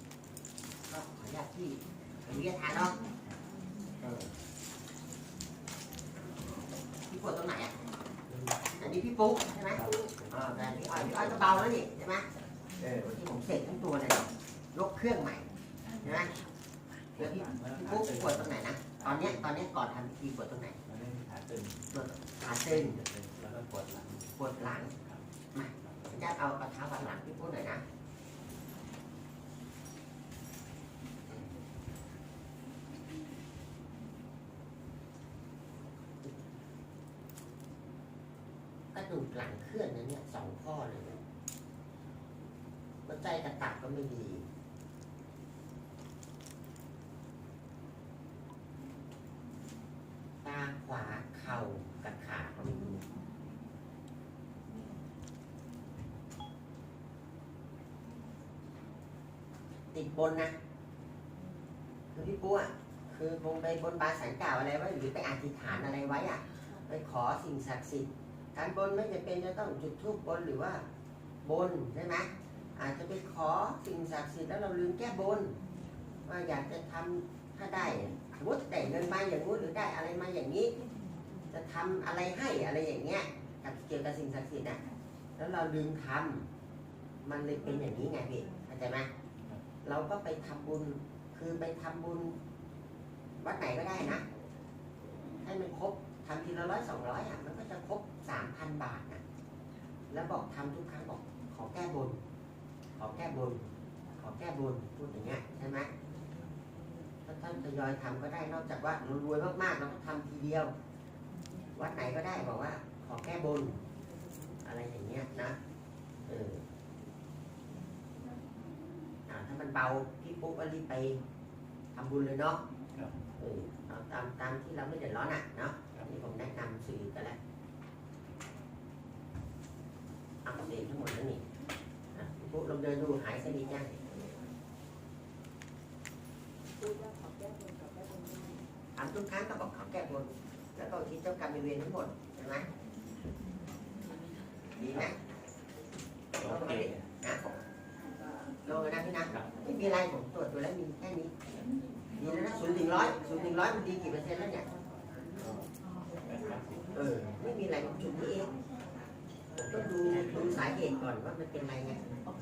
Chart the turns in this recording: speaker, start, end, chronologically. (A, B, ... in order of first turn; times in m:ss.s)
0:00.9-0:03.0 A
0:04.0-0:04.3 B
0:07.1-0:07.8 A
0:08.6-0:12.3 A
0:09.7-0:10.2 B
0:10.9-0:11.7 B
0:12.8-0:15.5 A
0:16.0-0:16.4 A
0:17.2-0:20.8 A
0:17.2-0:19.5 B
0:20.9-0:21.9 B
0:21.9-0:23.0 A
0:22.7-0:24.3 B
0:24.4-0:24.9 A
0:24.9-0:25.2 B
0:25.5-0:27.8 A
0:25.8-0:26.1 B
0:38.9-0:41.2 A
0:43.1-0:44.5 A
0:50.4-0:53.1 A
0:59.9-1:00.5 A
1:02.1-1:10.8 A
1:11.4-1:15.6 A
1:16.3-1:20.8 A
1:21.5-1:24.8 A
1:25.4-1:26.5 A
1:27.2-1:29.1 A
1:29.8-1:32.4 A
1:33.4-1:34.2 A
1:35.4-1:39.2 A
1:40.1-1:42.2 A
1:43.0-1:43.6 A
1:44.2-1:45.9 A
1:47.3-1:50.7 A
1:51.7-1:53.8 A
1:54.6-1:55.6 A
1:56.3-1:56.6 A
1:59.3-2:01.2 A
2:01.9-2:02.6 A
2:03.4-2:07.4 A
2:10.4-2:11.4 A
2:12.1-2:14.0 A
2:19.0-2:22.7 A
2:24.8-2:25.2 A
2:24.8-2:25.1 B
2:26.4-2:27.5 A
2:26.4-2:27.0 B
2:28.6-2:31.3 A
2:32.2-2:34.7 A
2:35.4-2:35.7 B
2:36.3-2:36.9 B
2:36.9-2:38.5 A
2:39.6-2:42.0 A